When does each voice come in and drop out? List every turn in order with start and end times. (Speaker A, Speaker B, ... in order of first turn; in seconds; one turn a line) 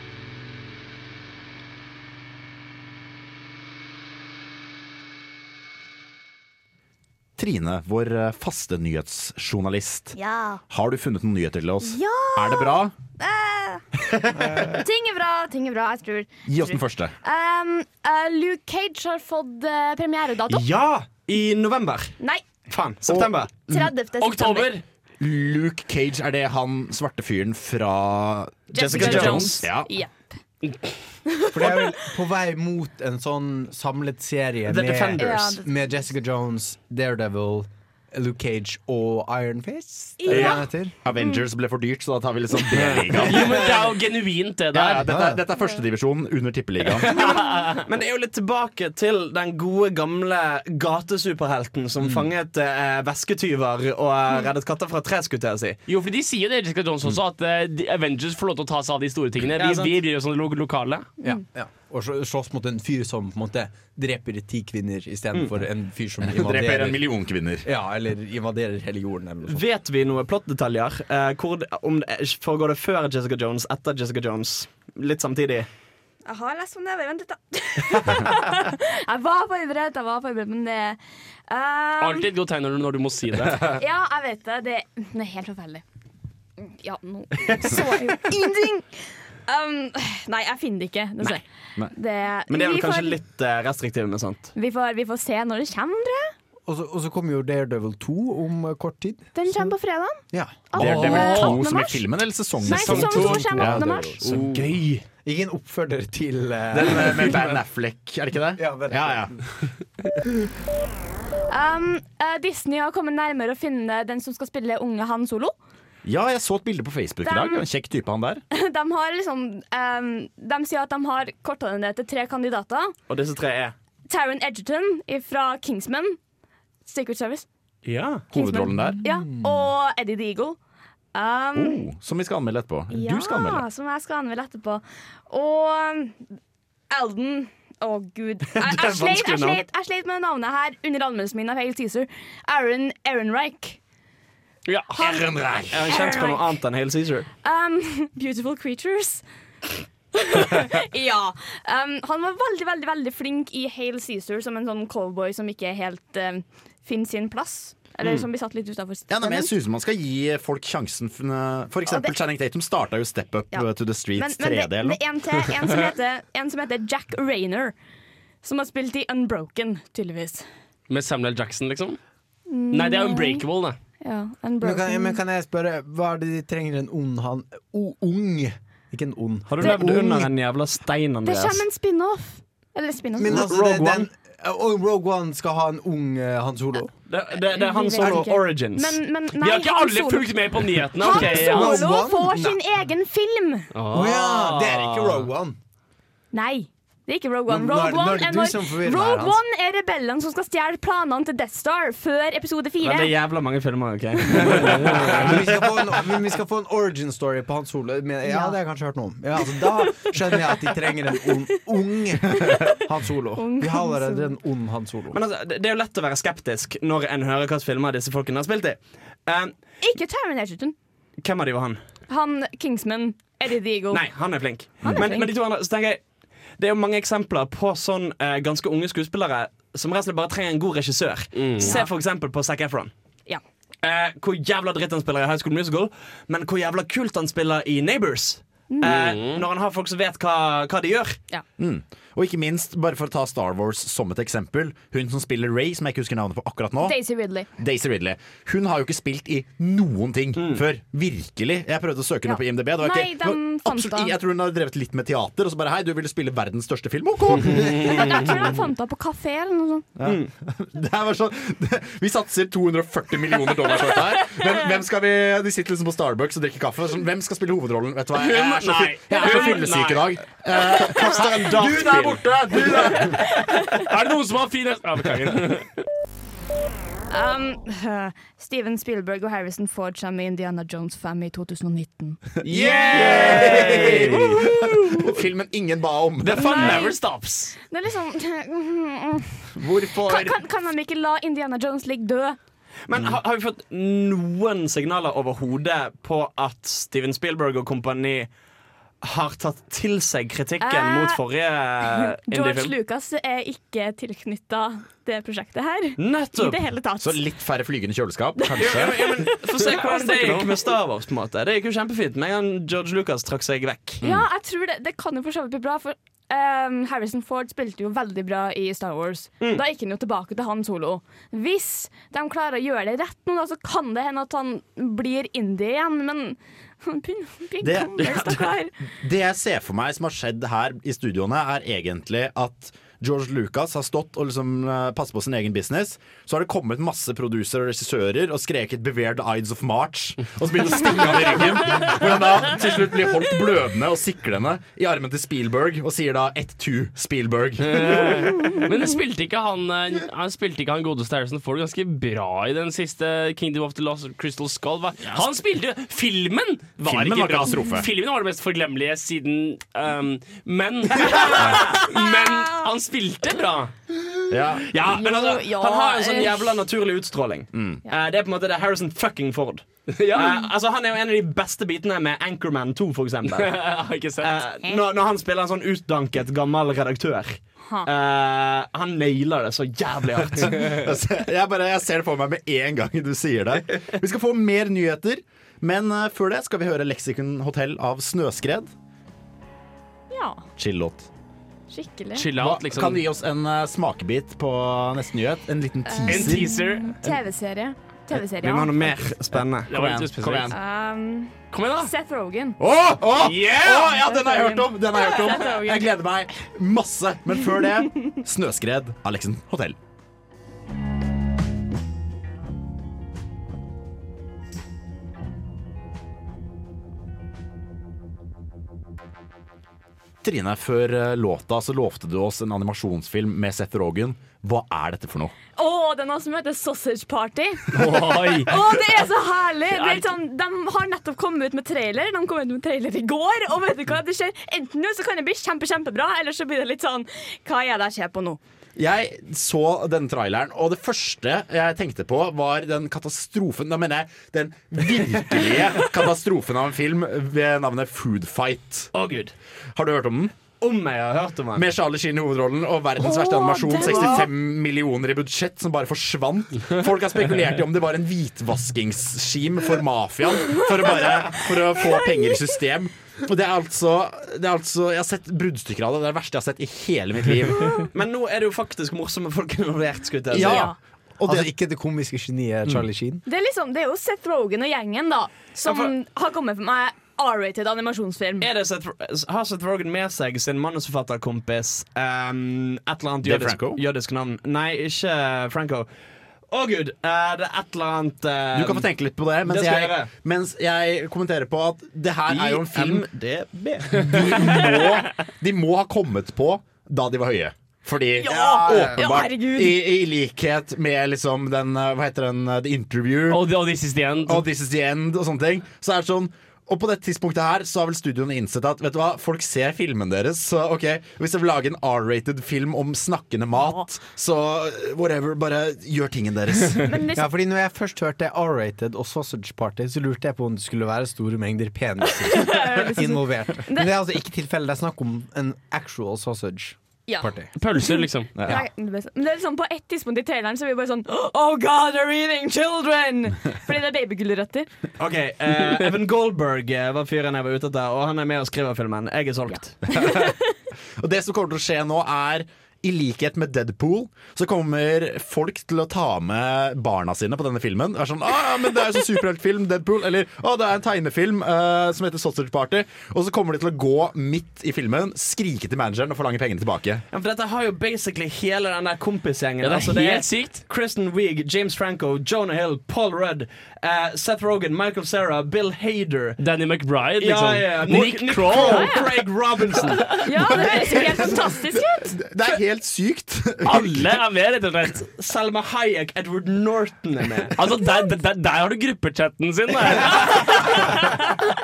Speaker A: 7.4-10.1
Speaker B: 10.1-10.6
Speaker A: 10.7-12.9
Speaker B: 11.8-13.8
Speaker B: 14.7-20.6
Speaker A: 16.4-17.1
Speaker C: 20.5-23.5
Speaker A: 23.1-23.9
Speaker B: 23.7-24.7
Speaker D: 24.2-24.8
Speaker A: 25.2-29.9
Speaker B: 28.7-30.3
Speaker C: 28.7-29.6
Speaker D: 30.6-30.9
Speaker B: 31.2-31.9
Speaker E: 31.5-40.9
Speaker C: 34.6-35.4
Speaker B: 35.2-35.7
Speaker B: 40.2-41.4
Speaker A: 40.3-43.7
Speaker D: 42.8-45.0
Speaker E: 43.4-43.9
Speaker A: 44.7-47.2
Speaker E: 45.0-45.4
Speaker D: 47.0-47.8
Speaker C: 47.9-55.8
Speaker E: 52.0-52.3
Speaker D: 55.9-61.1
Speaker C: 59.6-59.9
Speaker E: 61.2-67.0
Speaker A: 66.2-67.6
Speaker E: 67.6-69.6
Speaker C: 69.5-75.7
Speaker B: 76.2-82.3
Speaker D: 82.0-83.8
Speaker B: 83.8-85.8
Speaker B: 86.6-93.2
Speaker C: 92.5-94.5
Speaker B: 94.5-96.3
Speaker E: 96.7-99.7
Speaker B: 99.3-102.0
Speaker E: 100.3-100.7
Speaker A: 100.7-104.5
Speaker D: 100.8-101.6
Speaker B: 102.5-104.2
Speaker D: 102.7-105.0
Speaker E: 103.5-104.3
Speaker E: 105.2-107.6
Speaker A: 106.7-109.4
Speaker E: 108.6-109.5
Speaker B: 111.5-115.5
Speaker A: 116.0-118.4
Speaker B: 117.2-117.6
Speaker B: 118.5-122.9
Speaker C: 123.1-123.7
Speaker B: 124.1-126.2
Speaker B: 126.8-127.5
Speaker C: 127.8-128.2
Speaker A: 128.3-129.0
Speaker B: 128.3-130.6
Speaker B: 131.1-131.9
Speaker A: 131.5-133.6
Speaker B: 132.9-136.3
Speaker B: 136.9-143.8
Speaker C: 138.5-139.6
Speaker D: 144.7-145.0
Speaker A: 145.0-145.9
Speaker C: 145.7-147.3
Speaker B: 145.9-146.5
Speaker B: 147.4-149.2
Speaker B: 150.1-159.5
Speaker A: 159.1-165.0
Speaker B: 161.8-162.2
Speaker B: 163.5-167.7
Speaker B: 168.4-170.5
Speaker D: 170.9-172.0
Speaker B: 172.5-173.4
Speaker D: 172.7-173.8
Speaker B: 174.0-175.2
Speaker E: 174.6-180.0
Speaker C: 179.5-181.6
Speaker B: 179.6-179.9
Speaker B: 181.2-183.5
Speaker E: 183.2-186.9
Speaker C: 183.3-184.1
Speaker C: 187.1-189.0
Speaker B: 187.5-193.7
Speaker E: 188.0-188.3
Speaker D: 189.4-191.8
Speaker E: 191.0-192.6
Speaker D: 193.7-194.6
Speaker E: 193.9-195.6
Speaker C: 194.7-195.2
Speaker B: 196.3-203.1
Speaker E: 197.5-199.4
Speaker C: 202.8-205.4
Speaker D: 204.4-205.2
Speaker E: 205.1-215.2
Speaker B: 208.2-208.6
Speaker B: 213.4-214.3
Speaker C: 215.1-219.5
Speaker B: 219.8-220.8
Speaker C: 221.2-221.8
Speaker B: 222.1-224.1
Speaker C: 223.9-226.0
Speaker B: 224.8-225.3
Speaker C: 226.6-232.9
Speaker D: 231.3-231.8
Speaker B: 231.6-231.9
Speaker C: 233.8-241.2
Speaker B: 238.7-238.9
Speaker D: 238.8-239.4
Speaker A: 241.6-247.0
Speaker B: 246.8-247.5
Speaker A: 247.5-258.0
Speaker C: 250.4-250.6
Speaker B: 252.2-254.1
Speaker D: 257.6-258.2
Speaker B: 257.7-259.9
Speaker A: 260.0-273.2
Speaker C: 260.0-260.3
Speaker B: 264.2-264.4
Speaker D: 268.2-270.1
Speaker B: 269.2-269.5
Speaker D: 270.9-272.1
Speaker D: 273.7-275.7
Speaker B: 277.1-282.2
Speaker A: 282.4-286.8
Speaker D: 282.4-285.1
Speaker C: 283.0-283.7
Speaker D: 286.2-287.6
Speaker B: 286.4-287.0
Speaker B: 287.7-292.4
Speaker A: 289.6-290.4
Speaker C: 292.9-298.3
Speaker C: 299.0-302.7
Speaker B: 300.6-301.2
Speaker B: 302.3-307.2
Speaker C: 306.0-306.6
Speaker A: 307.0-309.1
Speaker C: 308.6-314.0
Speaker B: 309.7-310.5
Speaker B: 314.0-328.7
Speaker A: 327.6-348.3
Speaker D: 347.6-363.7
Speaker A: 355.0-355.4
Speaker A: 356.8-357.9
Speaker A: 364.3-364.7
Speaker C: 364.7-380.8
Speaker B: 365.0-366.5
Speaker A: 367.5-367.8
Speaker D: 369.9-370.4
Speaker D: 373.3-374.4
Speaker A: 380.4-388.7
Speaker B: 390.1-390.4
Speaker A: 390.6-391.1
Speaker B: 391.7-392.3
Speaker D: 392.1-393.0
Speaker A: 392.4-396.5
Speaker B: 395.9-398.7
Speaker D: 396.1-397.1
Speaker C: 398.4-399.7
Speaker A: 399.3-400.5
Speaker D: 399.7-400.5
Speaker B: 400.5-402.6
Speaker D: 401.5-401.9
Speaker A: 402.6-409.8
Speaker D: 403.2-403.6
Speaker B: 403.3-405.9
Speaker A: 420.2-425.3
Speaker B: 425.6-427.7
Speaker D: 427.7-428.5
Speaker B: 428.4-438.4
Speaker D: 429.7-430.1
Speaker A: 438.8-448.9
Speaker C: 448.9-449.3
Speaker A: 449.7-450.3
Speaker C: 450.6-451.6
Speaker A: 451.5-467.8
Speaker B: 453.0-454.3
Speaker B: 460.5-462.5
Speaker C: 467.9-470.7
Speaker A: 470.3-471.5
Speaker B: 470.4-470.8
Speaker E: 471.2-473.2
Speaker B: 473.2-478.5
Speaker C: 475.6-475.9
Speaker C: 478.4-485.9
Speaker A: 483.2-483.8
Speaker C: 486.5-488.9
Speaker A: 488.5-503.4
Speaker C: 489.4-490.1
Speaker C: 492.3-493.1
Speaker B: 498.2-499.8
Speaker D: 503.3-504.4
Speaker A: 504.2-516.9
Speaker B: 513.6-513.9
Speaker B: 516.8-517.2
Speaker E: 517.1-527.5
Speaker B: 522.3-523.9
Speaker B: 527.1-534.7
Speaker D: 527.5-528.3
Speaker A: 528.4-528.6
Speaker C: 535.0-539.9
Speaker B: 539.5-540.5
Speaker A: 541.0-557.0
Speaker C: 557.1-566.4
Speaker D: 559.6-560.6
Speaker D: 566.4-570.2
Speaker C: 567.2-570.5
Speaker B: 568.6-569.0
Speaker B: 570.1-572.1
Speaker A: 570.8-574.1
Speaker D: 573.6-575.0
Speaker C: 575.1-577.5
Speaker D: 577.6-581.1